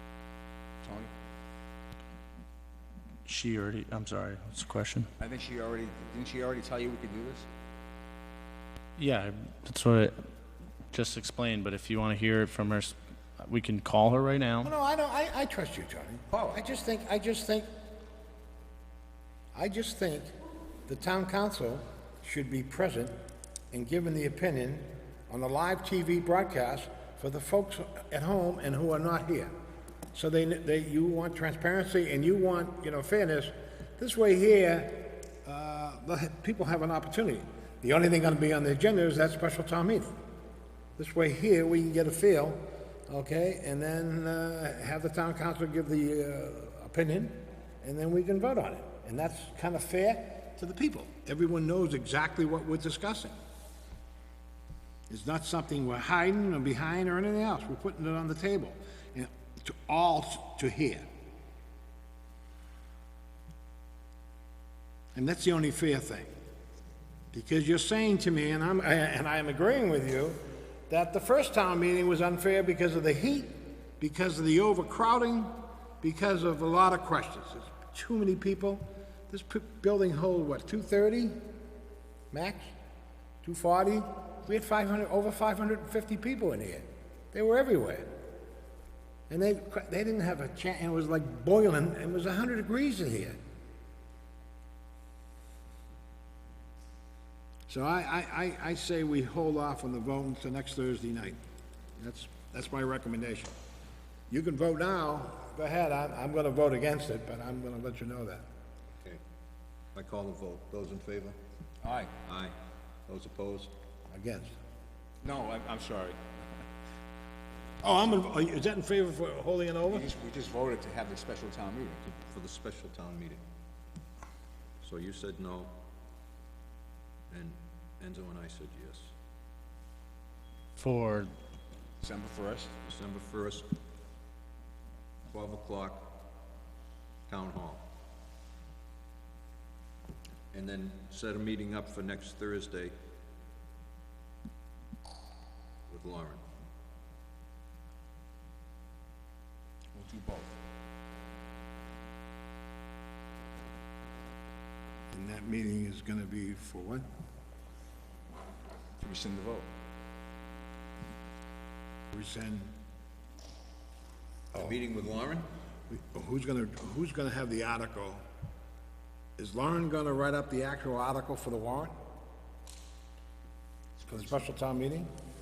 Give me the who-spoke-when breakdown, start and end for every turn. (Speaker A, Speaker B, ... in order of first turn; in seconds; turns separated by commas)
Speaker A: 0.8-1.1, Speaker B: 3.2-5.1, Speaker A: 5.2-7.5, Speaker B: 9.0-10.1, Speaker B: 10.9-14.7, Speaker C: 14.6-17.7, Speaker C: 19.5-20.3, Speaker C: 20.9-23.1, Speaker C: 23.7-29.5, Speaker C: 30.1-40.1, Speaker C: 41.0-53.3, Speaker C: 55.1-61.0, Speaker C: 65.1-66.3, Speaker C: 67.3-81.4, Speaker C: 82.3-82.7, Speaker C: 83.4-88.1, Speaker C: 89.3-93.4, Speaker C: 97.7-101.4, Speaker C: 102.0-103.5, Speaker C: 104.3-108.5, Speaker D: 109.9-111.4, Speaker A: 111.8-112.1, Speaker D: 112.2-112.5, Speaker D: 113.1-113.7, Speaker C: 114.1-114.5, Speaker A: 115.2-116.2, Speaker C: 117.8-120.1, Speaker A: 119.9-122.0, Speaker D: 122.0-123.4, Speaker D: 124.8-125.7, Speaker D: 127.3-129.1, Speaker B: 130.8-131.3, Speaker A: 132.0-132.7, Speaker D: 132.8-133.7, Speaker D: 135.3-136.1, Speaker D: 137.3-137.8, Speaker D: 140.5-142.9, Speaker D: 145.9-146.4, Speaker A: 149.9-150.5, Speaker C: 155.1-157.1, Speaker A: 159.0-159.7, Speaker C: 162.1-162.7, Speaker C: 164.5-164.8, Speaker D: 164.5-165.5, Speaker C: 165.9-168.2, Speaker C: 169.4-171.9, Speaker C: 174.1-175.1